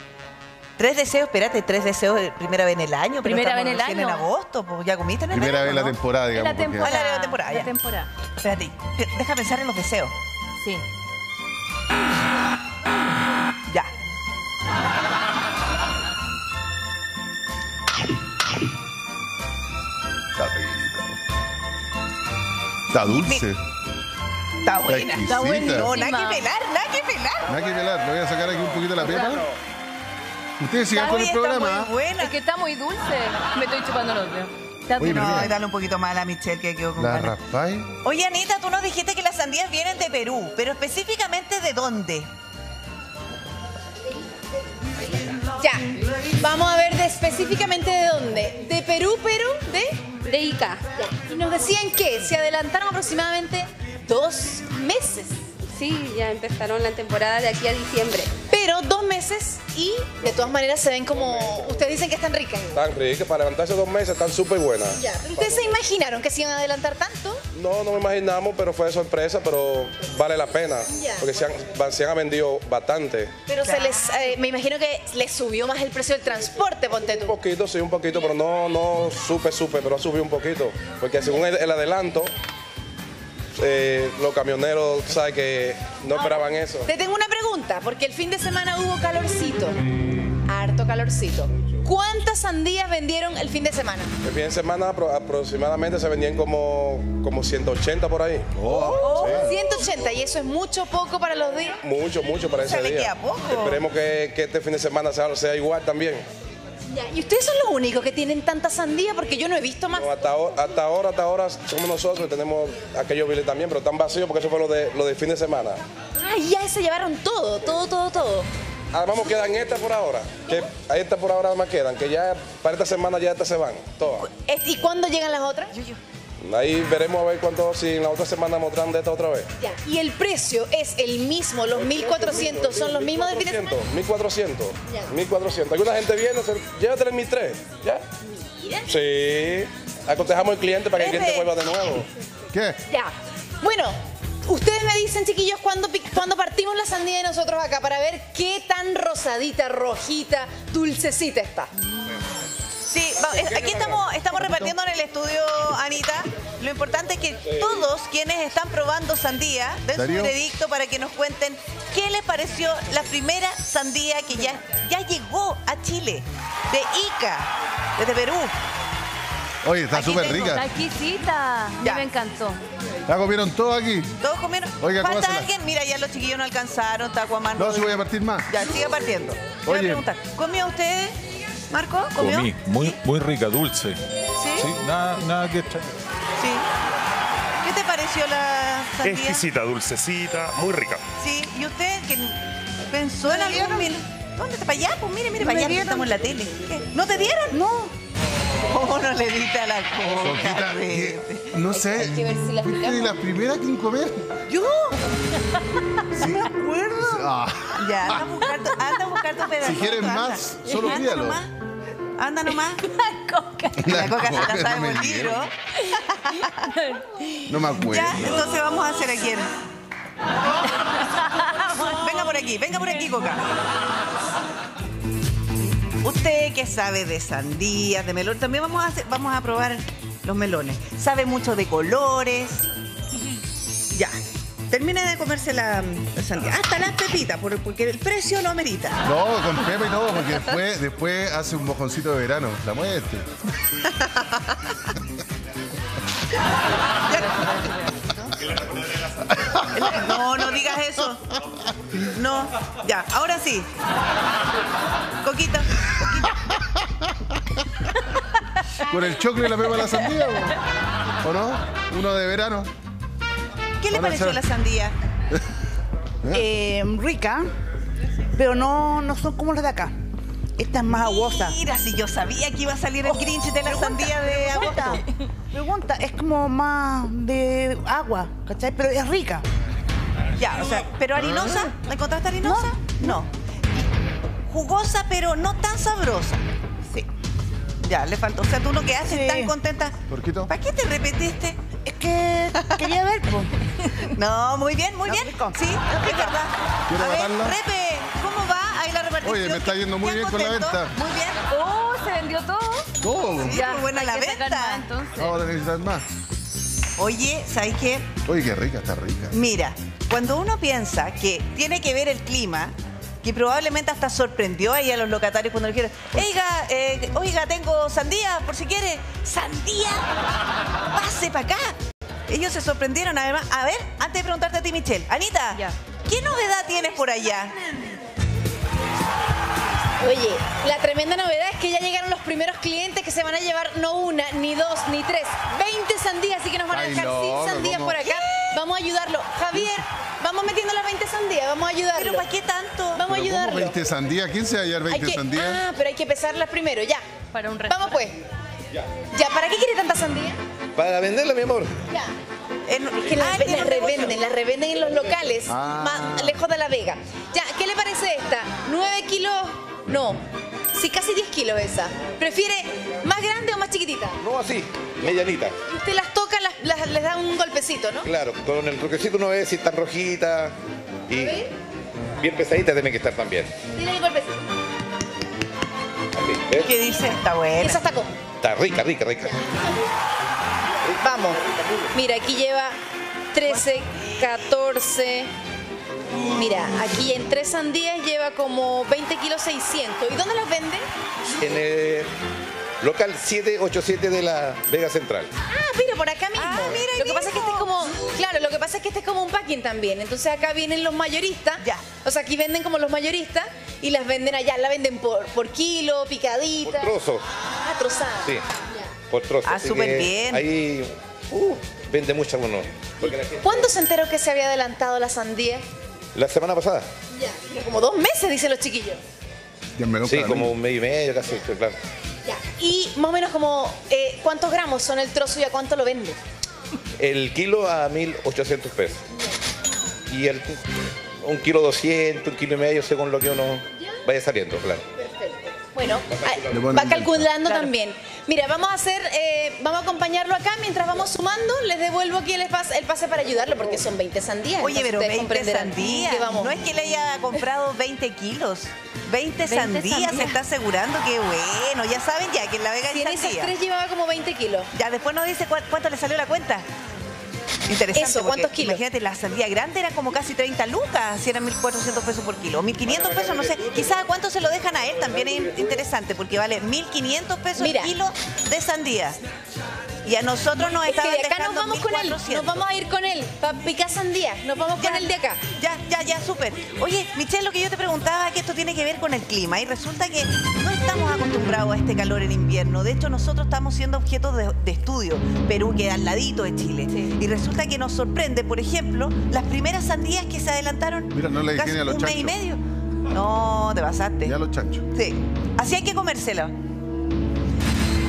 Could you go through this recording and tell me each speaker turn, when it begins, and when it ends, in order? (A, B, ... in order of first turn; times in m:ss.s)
0:00.8-0:06.0 A
0:03.2-0:04.2 B
0:05.3-0:06.9 C
0:06.3-0:08.1 B
0:06.8-0:07.7 A
0:08.4-0:10.1 A
0:10.6-0:10.8 B
0:20.3-0:21.2 C
0:22.9-0:23.6 C
0:23.0-0:23.4 A
0:24.6-0:27.5 A
0:24.9-0:25.9 C
0:25.2-0:26.5 B
0:27.5-0:29.5 C
0:29.0-0:29.4 B
0:30.6-0:31.9 C
0:30.9-0:32.3 A
0:32.2-0:35.4 B
0:35.0-0:35.6 C
0:35.0-0:37.3 A
0:37.0-0:37.9 C
0:38.0-0:42.3 A
0:45.6-0:45.9 D
0:46.4-0:50.0 D
0:50.2-0:50.8 E
0:51.0-0:55.4 D
0:55.7-0:58.3 E
0:58.5-1:02.9 D
1:03.0-1:04.9 F
1:05.0-1:07.4 D
1:05.4-1:05.7 G
1:07.6-1:13.3 F
1:10.9-1:11.2 D
1:13.5-1:17.4 D
1:13.6-1:14.3 A
1:17.4-1:22.3 F
1:23.6-1:26.2 F
1:24.6-1:25.3 G
1:26.1-1:29.8 D
1:26.2-1:26.8 G
1:30.4-1:34.1 D
1:34.2-1:34.8 G
1:34.2-1:38.4 F
1:35.8-1:36.4 G
1:38.5-1:39.6 C
1:38.7-1:41.8 D
1:38.9-1:39.4 A
1:41.8-1:45.6 G
1:42.6-1:43.8 A
1:45.1-1:46.2 F
1:46.9-1:50.1 D
1:49.9-1:50.5 G
1:50.2-1:55.8 F
1:51.7-1:52.9 G
1:56.2-1:58.5 D
1:58.9-2:00.0 G
1:59.5-2:04.1 F
2:04.2-2:05.7 D
2:06.5-2:09.5 F
2:09.6-2:13.8 D
2:11.8-2:14.4 G
2:13.9-2:18.0 F
2:17.1-2:17.8 G
2:18.2-2:18.9 D
2:18.9-2:19.2 G
2:19.1-2:20.5 F
2:20.5-2:21.9 G
2:20.9-2:21.5 A
2:22.5-2:22.8 C
2:22.9-2:31.7 D
2:32.9-2:48.5 A
2:34.4-2:34.7 C
2:39.9-2:40.4 C
2:49.6-2:50.6 C
2:50.1-2:52.6 B
2:51.8-2:52.1 A
2:53.0-2:54.2 C
2:54.2-3:01.2 A
2:54.8-2:55.5 C
2:57.6-2:58.5 C
2:59.7-3:00.0 C
3:01.7-3:03.0 A
3:02.2-3:04.0 G
3:02.5-3:03.9 H
3:04.4-3:04.7 A
3:04.7-3:05.9 H
3:06.4-3:06.6 A
3:07.6-3:09.5 A
3:09.0-3:11.0 I
3:09.2-3:09.4 H
3:11.2-3:17.6 A
3:13.2-3:14.0 J
3:15.4-3:16.2 J
3:17.5-3:17.9 J
3:18.6-3:21.6 A
3:20.0-3:24.3 C
3:21.7-3:23.1 D
3:24.5-3:25.0 A
3:26.1-3:28.3 C
3:26.4-3:27.3 J
3:27.8-3:31.5 A
3:28.6-3:29.0 B
3:29.6-3:31.4 C
3:30.6-3:31.0 B
3:32.2-3:32.8 A
3:32.5-3:34.0 B
3:33.8-3:35.5 C
3:33.8-3:35.5 A
3:35.7-3:37.5 B
3:36.1-3:36.7 A
3:37.5-3:38.4 C
3:37.9-3:39.5 A
3:40.8-3:42.9 B
3:41.8-3:43.4 A
3:46.0-3:52.6 A
3:54.7-3:59.0 A
3:59.0-4:03.2 C
4:03.9-4:04.5 A
4:07.1-4:08.3 B
4:09.2-4:10.6 C
4:09.7-4:11.2 A
4:11.3-4:12.0 C
4:12.1-4:13.7 A
4:15.2-4:16.3 A
4:16.4-4:17.2 C
4:18.8-4:20.6 C
4:21.2-4:22.7 C
4:23.8-4:24.9 A
4:23.9-4:24.4 C
4:26.3-4:27.5 J
4:28.3-4:30.0 J
4:30.6-4:31.6 J
4:30.9-4:35.0 A
4:33.1-4:35.0 J
4:34.7-4:35.0 B
4:35.5-4:39.4 J
4:40.4-4:43.3 A
4:41.2-4:41.5 C
4:42.4-4:43.2 J
4:44.5-4:46.4 A
4:47.8-4:51.6 A
4:49.0-4:49.5 J
4:50.1-4:50.5 C
4:51.8-4:53.5 J
4:52.5-4:52.9 A
4:54.1-5:01.4 A
4:55.0-4:56.4 J
4:56.9-4:57.6 C
4:59.2-5:00.9 C
5:01.5-5:02.9 B
5:03.0-5:03.8 C
5:03.4-5:04.8 A
5:03.4-5:05.4 B
5:05.2-5:06.0 C
5:07.0-5:08.1 A
5:08.2-5:09.4 C
5:09.3-5:20.1 A
5:20.9-5:21.7 A
5:22.3-5:27.6 A
5:30.0-5:42.2 D
5:36.7-5:38.0 C
5:38.0-5:38.4 A
5:41.9-5:43.0 A
5:42.9-5:43.8 D
5:43.0-5:45.6 C
5:44.9-5:47.0 D
5:47.3-5:48.0 B
5:47.7-5:48.2 D
5:49.1-5:50.4 D
5:50.8-5:51.7 G
5:51.9-5:52.1 D
5:52.7-5:54.2 A
5:53.0-6:00.2 D
5:55.5-5:56.4 C
6:00.7-6:04.2 D
6:04.2-6:05.6 G
6:05.6-6:08.1 D
6:08.0-6:10.6 G
6:11.1-6:11.4 G
6:11.2-6:11.5 D
6:12.2-6:13.5 G
6:13.7-6:14.5 D
6:16.1-6:16.7 G
6:16.6-6:17.8 A
6:17.5-6:18.2 D
6:18.4-6:19.4 G
6:20.9-6:21.4 D
6:21.9-6:22.8 D
6:23.3-6:25.3 D
6:26.3-6:30.9 D
6:31.4-6:32.1 G
6:32.8-6:35.3 G
6:35.5-6:47.0 D
6:36.4-6:37.7 A
6:46.6-6:47.3 G
6:47.6-6:48.9 D
6:49.1-6:53.7 G
6:49.4-6:50.4 A
6:53.4-6:55.6 D
6:56.1-6:56.9 G
6:57.1-6:59.0 D
6:59.8-7:00.6 C
7:00.0-7:01.8 G
7:02.2-7:06.2 D
7:07.0-7:09.0 G
7:10.1-7:14.8 G
7:15.0-7:26.6 D
7:16.5-7:17.3 C
7:24.6-7:33.5 A
7:29.4-7:30.4 B
7:32.9-7:34.7 D
7:34.7-7:36.6 A
7:37.7-7:49.2 A
7:37.9-7:38.8 D
7:47.6-7:47.9 D
7:50.0-7:52.6 A
7:50.8-7:55.4 D
7:54.8-8:14.3 A
8:06.9-8:07.1 B
8:11.1-8:12.4 C
8:14.2-8:14.8 C
8:14.9-8:16.5 A